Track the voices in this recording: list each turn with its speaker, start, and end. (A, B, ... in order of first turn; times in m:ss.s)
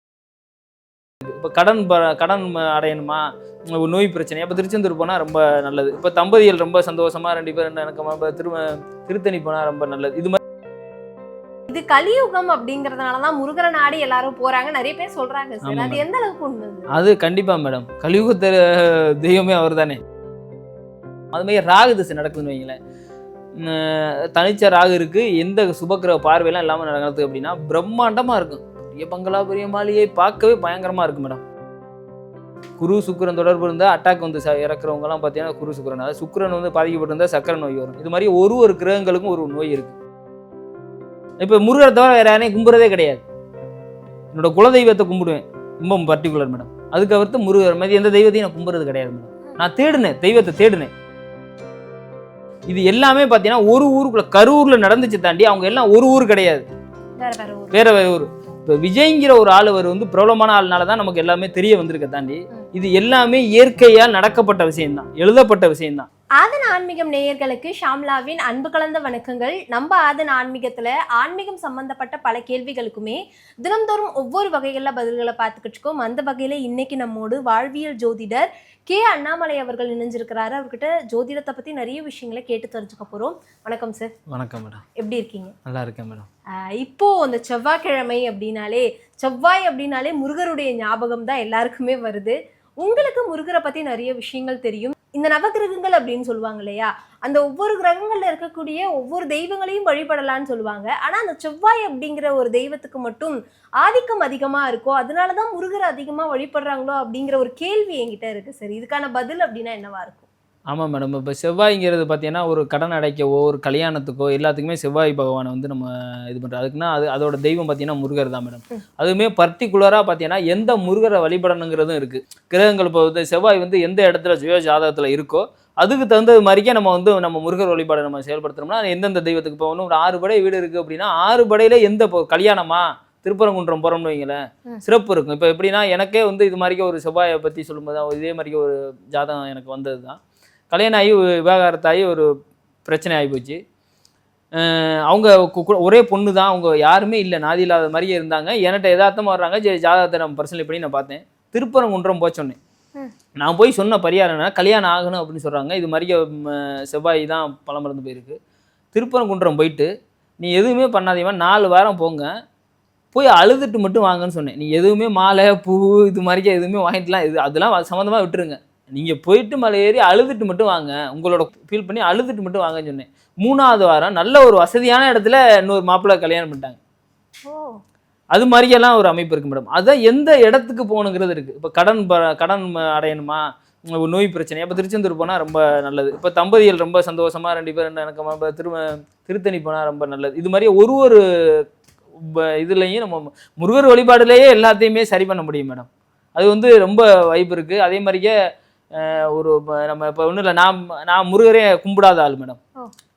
0:01.2-0:10.4 A
0:11.7-0:16.9 B
0:15.6-0:16.0 A
0:16.9-0:20.0 A
0:21.3-0:22.8 A
0:23.6-0:31.4 A
0:32.8-0:40.0 A
0:41.4-0:43.2 A
0:44.3-0:50.9 A
0:52.7-0:56.6 A
0:57.2-0:57.8 B
0:57.7-1:06.1 A
1:06.4-1:24.1 B
1:24.3-1:24.8 A
1:25.0-1:25.6 B
1:25.7-1:26.3 A
1:26.7-1:50.3 B
1:50.7-2:20.2 A
2:20.7-2:22.3 A
2:22.8-2:23.6 A
2:24.6-2:32.6 A
2:33.4-2:38.4 A
2:38.9-2:39.9 A
2:40.4-2:42.3 A
2:43.1-2:56.8 A
2:57.5-2:57.8 B
2:58.3-3:11.6 A
3:12.2-3:18.3 A
3:18.9-3:22.6 A